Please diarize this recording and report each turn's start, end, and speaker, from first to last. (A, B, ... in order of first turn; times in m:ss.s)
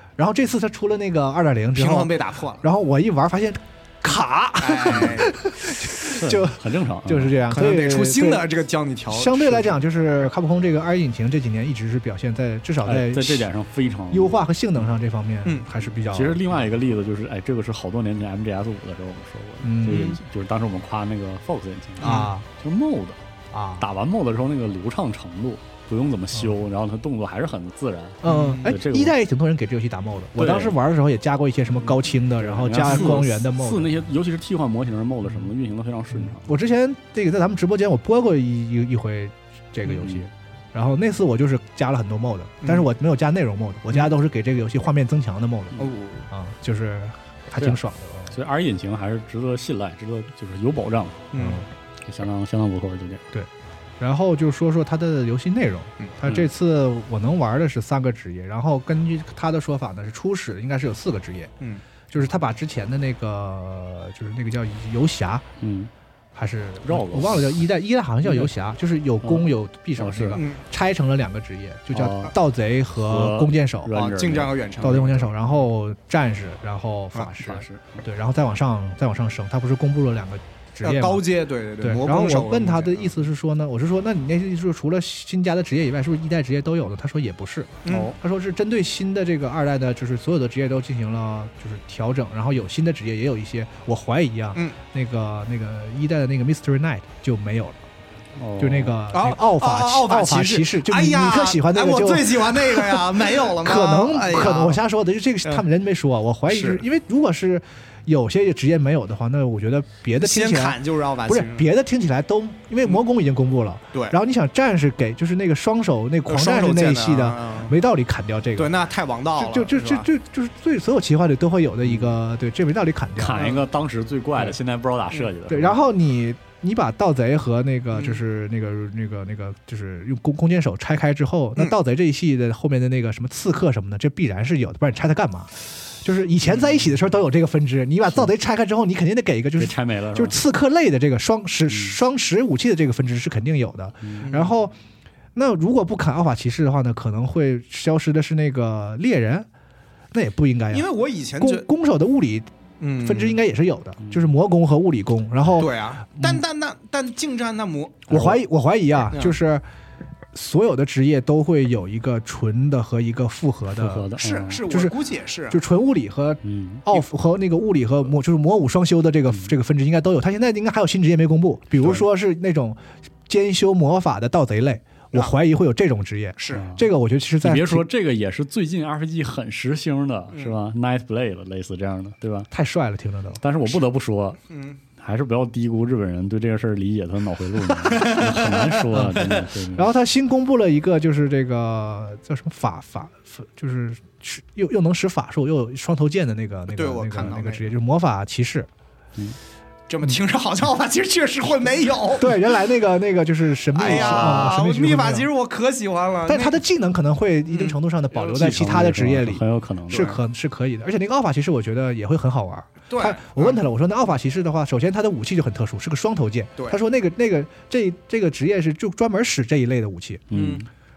0:00.2-0:08.5 A
0:01.7-0:02.6 B
0:04.6-0:05.4 B
0:06.0-0:07.5 C
0:07.5-0:09.8 B
0:09.1-0:13.5 A
0:12.8-0:14.4 C
0:14.1-0:16.5 A
0:16.1-0:23.2 C
0:19.6-0:20.2 A
0:22.0-0:22.3 B
0:22.0-0:22.4 A
0:23.5-0:23.8 A
0:23.8-0:29.2 C
0:26.3-0:26.6 A
0:28.2-0:33.9 A
0:28.2-0:28.7 B
0:30.4-0:30.8 C
0:32.4-0:36.6 C
0:32.9-0:33.2 B
0:36.1-0:48.3 A
0:45.8-0:46.2 B
0:47.6-0:51.2 C
0:51.3-0:51.7 B
0:51.4-0:51.6 A
0:52.0-0:53.2 C
0:54.0-1:01.5 A
1:02.1-1:05.5 A
1:05.6-1:05.9 C
1:06.3-1:13.9 A
1:06.8-1:07.5 C
1:08.2-1:08.5 C
1:09.2-1:10.4 C
1:10.4-1:10.6 B
1:11.9-1:12.3 C
1:13.0-1:14.5 C
1:13.9-1:15.4 B
1:14.8-1:21.2 A
1:17.4-1:18.0 C
1:20.8-1:23.2 B
1:21.8-1:37.8 A
1:27.8-1:28.1 B
1:27.9-1:28.1 C
1:38.4-1:39.0 C
1:38.6-1:58.7 A
1:39.1-1:44.8 B
1:46.5-1:46.8 B
1:50.2-1:51.7 B
1:56.3-1:57.7 B
1:58.6-2:00.1 B
1:59.4-2:03.5 A
2:01.8-2:02.1 C
2:03.2-2:05.8 C
2:05.5-2:24.7 A
2:07.9-2:08.2 B
2:19.6-2:20.4 C
2:24.0-2:24.3 C
2:24.2-2:24.5 B
2:25.3-2:29.5 A
2:30.1-2:32.5 A
2:30.7-2:31.7 B
2:32.8-2:33.4 B
2:33.0-2:36.4 A
2:34.0-2:34.2 C
2:35.6-2:38.3 B
2:38.1-2:39.6 A
2:40.3-2:44.1 A
2:43.8-2:44.6 C
2:44.2-2:45.6 B
2:44.6-2:45.0 A
2:45.5-2:57.8 A
2:46.4-2:46.8 C
2:56.4-2:56.7 B
2:56.5-2:56.8 C
2:57.4-3:02.5 C
3:00.3-3:00.6 B
3:02.5-3:03.4 A
3:03.4-3:04.4 C
3:04.5-3:04.8 B
3:05.0-3:09.9 C
3:07.8-3:08.8 B
3:08.9-3:18.7 A
3:16.7-3:17.6 B
3:19.9-3:22.4 B
3:22.2-3:25.3 A
3:23.7-3:26.6 B
3:23.8-3:24.5 C
3:26.2-3:40.3 A
3:27.5-3:28.5 B
3:28.3-3:30.0 C
3:29.9-3:30.2 B
3:32.9-3:33.6 B
3:40.3-3:40.6 C
3:40.3-3:40.6 B